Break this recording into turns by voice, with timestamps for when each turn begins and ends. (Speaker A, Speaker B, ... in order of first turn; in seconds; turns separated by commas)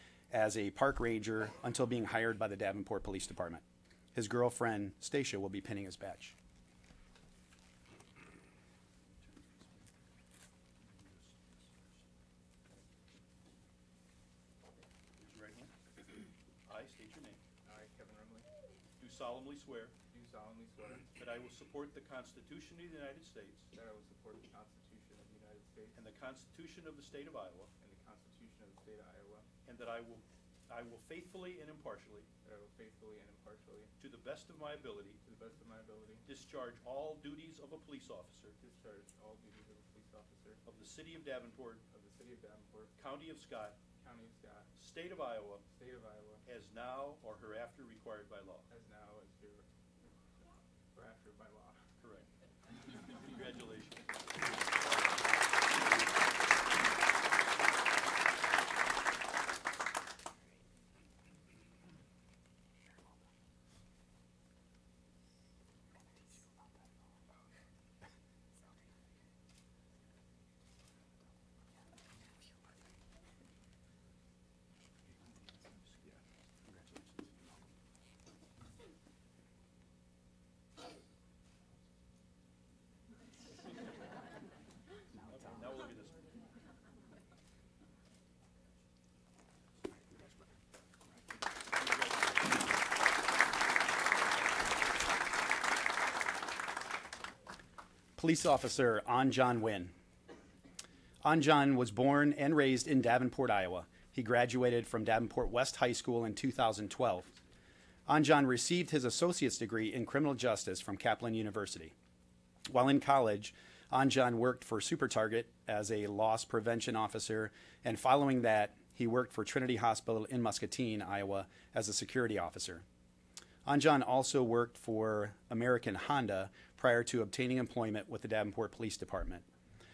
Speaker A: 0.3-3.6, Speaker A: 4.2-6.3, Speaker B: 9.1-9.9, Speaker B: 10.8-11.9, Speaker B: 15.2-15.7, Speaker B: 16.7-17.4, Speaker C: 17.6-18.5, Speaker B: 19.0-20.0, Speaker C: 20.1-21.1, Speaker B: 21.1-23.7, Speaker C: 23.7-26.0, Speaker B: 25.9-27.7, Speaker C: 27.8-29.5, Speaker B: 29.6-32.3, Speaker C: 32.4-33.9, Speaker B: 34.0-35.2, Speaker C: 35.2-36.2, Speaker B: 36.2-38.6, Speaker C: 38.6-40.6, Speaker B: 40.7-41.8, Speaker C: 41.9-42.9, Speaker B: 43.0-43.8, Speaker C: 43.9-44.7, Speaker B: 44.8-45.6, Speaker C: 45.7-46.4, Speaker B: 46.5-48.7, Speaker C: 48.7-49.7, Speaker C: 50.9-51.8, Speaker B: 52.0-52.3, Speaker B: 53.0-54.2, Speaker B: 75.1-77.5, Speaker B: 85.3-86.3, Speaker B: 91.7-92.8, Speaker A: 98.2-99.9, Speaker A: 101.2-107.4, Speaker A: 108.1-111.9, Speaker A: 112.7-122.8, Speaker A: 123.7-129.4